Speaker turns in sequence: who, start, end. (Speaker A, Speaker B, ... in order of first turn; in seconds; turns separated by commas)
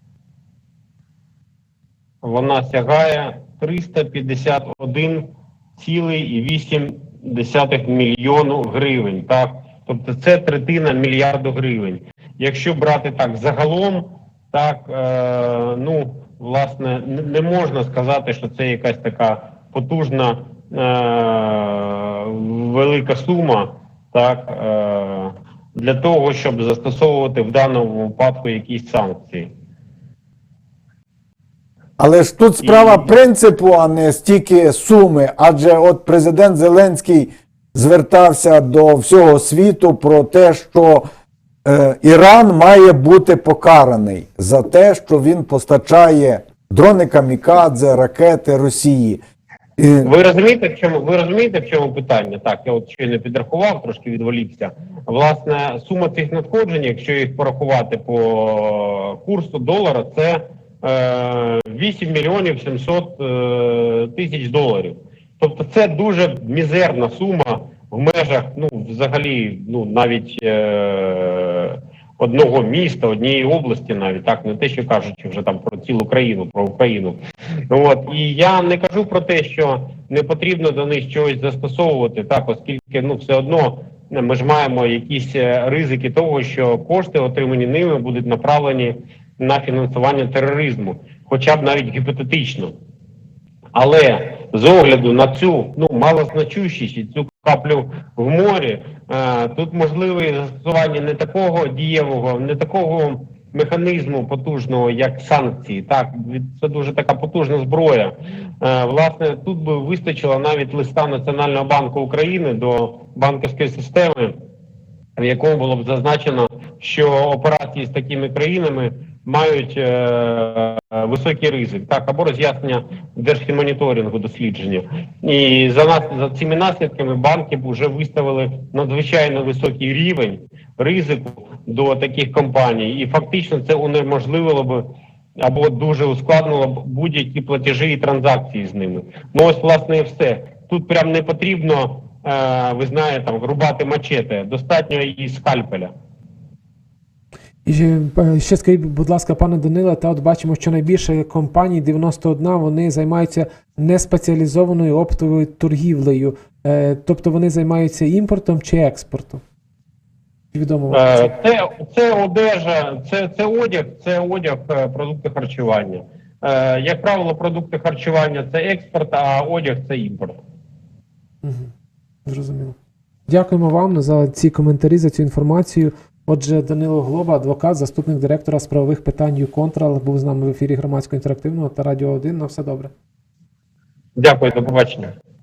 Speaker A: 2.2-29.5, Speaker B: 32.0-41.0, Speaker A: 32.6-33.1, Speaker B: 41.6-49.2, Speaker B: 49.8-50.1, Speaker A: 50.0-77.2, Speaker A: 77.7-92.7, Speaker A: 93.7-114.3, Speaker A: 115.2-145.9, Speaker C: 147.6-159.4, Speaker C: 160.5-161.3, Speaker A: 160.9-170.4, Speaker C: 171.4-171.7, Speaker C: 172.2-172.8, Speaker C: 173.3-182.9, Speaker A: 184.2-185.1